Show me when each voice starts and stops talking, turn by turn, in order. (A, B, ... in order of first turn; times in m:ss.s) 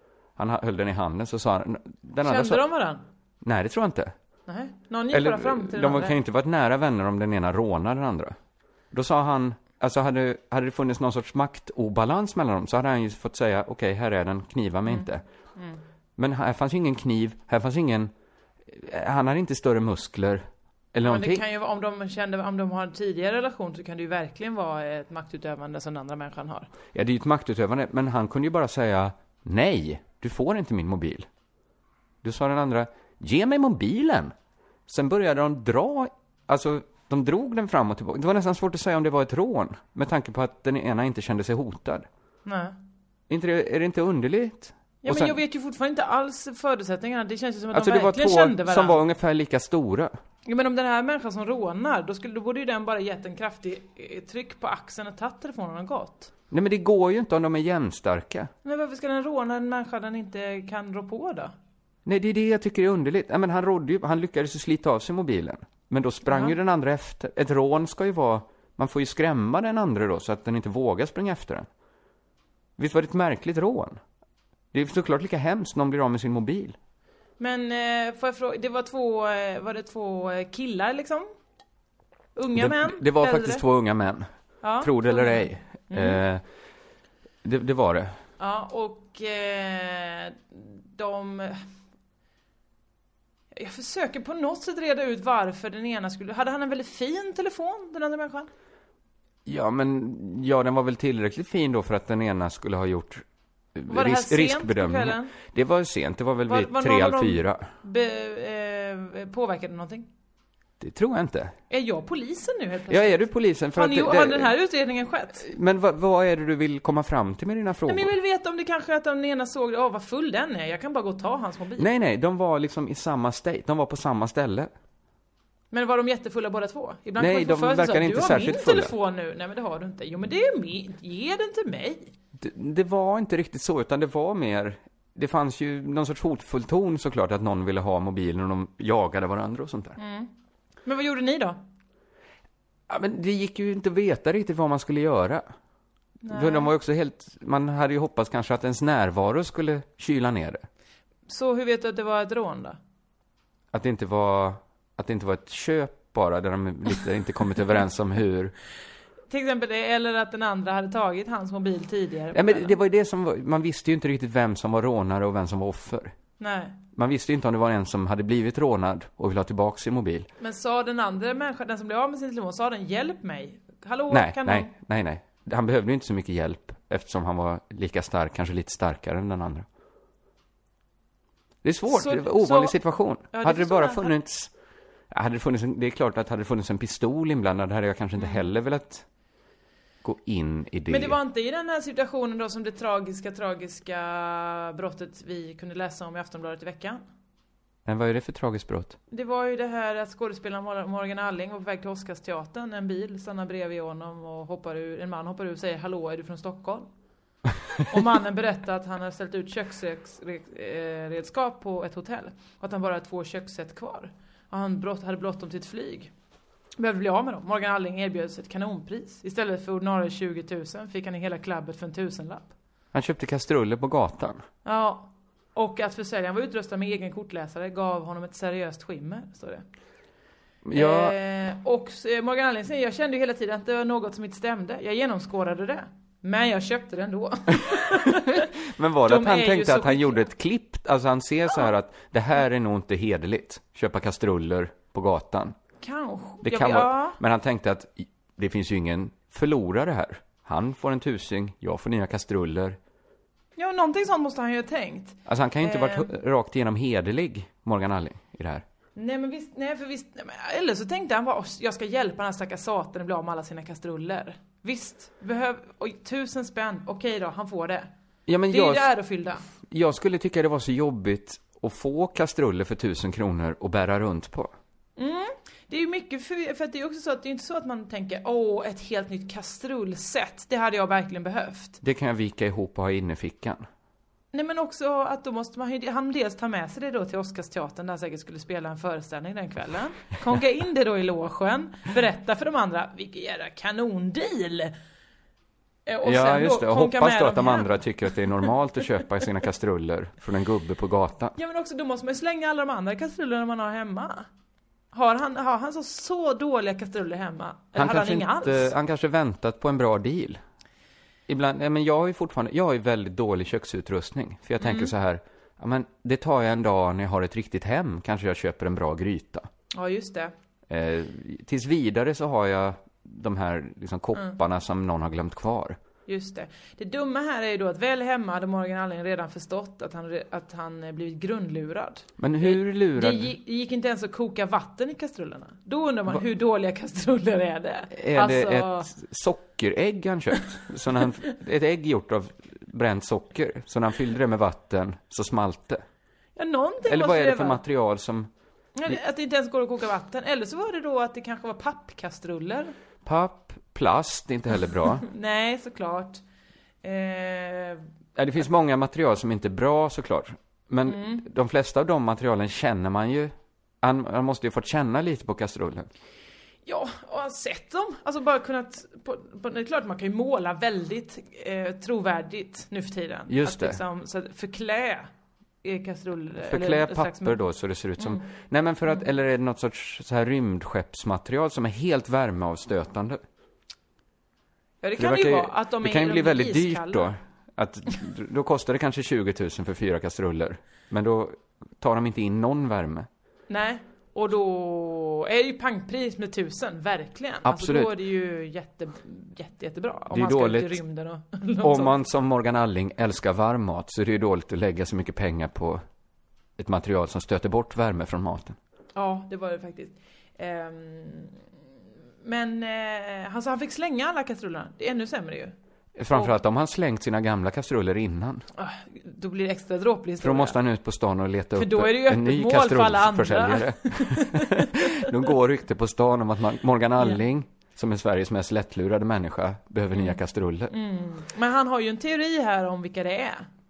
0:00.4-0:02.6 A
0:02.2-0:03.0 B
0:03.4-0:04.1 A
0:04.5-0:06.2 B
0:05.1-0:08.4 A
0:08.9-0:15.2 A
0:14.9-0:15.8 B
0:16.2-0:18.1 A
0:18.7-0:21.4 A
0:21.0-0:26.7 B
0:26.9-0:31.3 A
0:32.2-0:34.3 A
0:34.9-0:42.1 A
0:42.4-0:42.8 B
0:43.3-0:45.4 A
0:45.0-0:49.0 B
0:47.7-0:50.1 A
0:50.4-0:56.3 B
0:56.5-0:58.5 A
0:58.6-1:01.5 B
1:02.0-1:11.7 A
1:06.3-1:06.5 B
1:12.8-1:14.0 A
1:14.7-1:16.8 A
1:17.4-1:21.3 B
1:22.4-1:23.6 B
1:22.5-1:24.3 A
1:24.6-1:26.2 B
1:24.8-1:26.4 A
1:27.4-1:28.1 A
1:28.4-1:31.6 B
1:33.5-1:38.5 B
1:39.4-1:47.6 A
1:43.9-1:45.3 B
1:46.5-1:50.1 B
1:50.8-1:51.5 A
1:51.7-1:55.4 B
1:52.9-1:54.5 A
1:55.4-1:58.1 A
1:57.9-2:01.9 B
2:01.8-2:04.7 A
2:05.7-2:12.1 B
2:07.2-2:08.9 A
2:12.4-2:20.0 A
2:20.0-2:20.3 B
2:20.8-2:21.6 B
2:22.9-2:25.5 A
2:26.2-2:26.7 B
2:26.3-2:30.6 A
2:31.3-2:32.8 B
2:33.7-2:38.5 A
2:39.3-2:42.8 B
2:42.3-2:46.1 A
2:46.4-2:46.8 B
2:46.9-2:50.3 A
2:50.4-2:54.7 B
2:54.1-2:59.6 A
3:01.6-3:04.5 A
3:01.9-3:04.1 B
3:05.1-3:09.0 A
3:10.0-3:11.2 A
3:10.9-3:17.0 B
3:17.8-3:19.0 A
3:19.1-3:26.9 B
3:27.9-3:36.1 B
3:36.8-3:42.5 B
3:42.9-3:44.4 A
3:44.6-3:49.6 B
3:50.6-3:51.1 A
3:50.7-3:58.4 B
3:57.9-4:05.6 A
3:59.0-4:00.2 B
4:05.8-4:07.2 B
4:06.4-4:12.8 A
4:13.6-4:16.1 B
4:15.2-4:18.6 A
4:19.0-4:27.9 B
4:28.3-4:28.9 A
4:28.5-4:29.4 B
4:29.6-4:34.5 A
4:35.0-4:41.8 B
4:41.8-4:43.7 A
4:44.3-4:54.7 B
4:55.9-4:58.2 B
4:56.0-5:01.3 A
5:01.4-5:04.3 B
5:04.9-5:08.7 B
5:07.7-5:10.4 A
5:11.3-5:19.5 A
5:14.6-5:14.9 B
5:19.7-5:20.3 B
5:20.7-5:25.8 A
5:26.1-5:38.9 B
5:32.2-5:33.3 A
5:37.9-5:45.8 A
5:46.4-5:47.6 B
5:46.8-5:48.3 A
5:48.8-5:52.7 B
5:53.0-5:55.0 A
5:55.1-5:56.2 B
5:56.8-5:57.8 B
5:58.2-6:05.9 A
6:00.8-6:01.2 B
6:06.6-6:15.1 B
6:13.3-6:13.8 A
6:15.6-6:17.4 B
6:16.4-6:23.2 A
6:18.0-6:18.2 B
6:24.8-6:27.1 B
6:25.0-6:33.1 A
6:33.5-6:42.0 B
6:37.4-6:37.9 A
6:40.1-6:40.8 A
6:41.6-6:45.8 A
6:46.6-6:48.6 A
6:48.9-6:51.4 B
6:52.2-6:55.5 B
6:56.0-6:58.4 A
6:56.1-6:56.4 B
6:58.6-7:00.6 B
7:00.2-7:10.7 A
7:01.6-7:04.4 B
7:10.7-7:13.5 B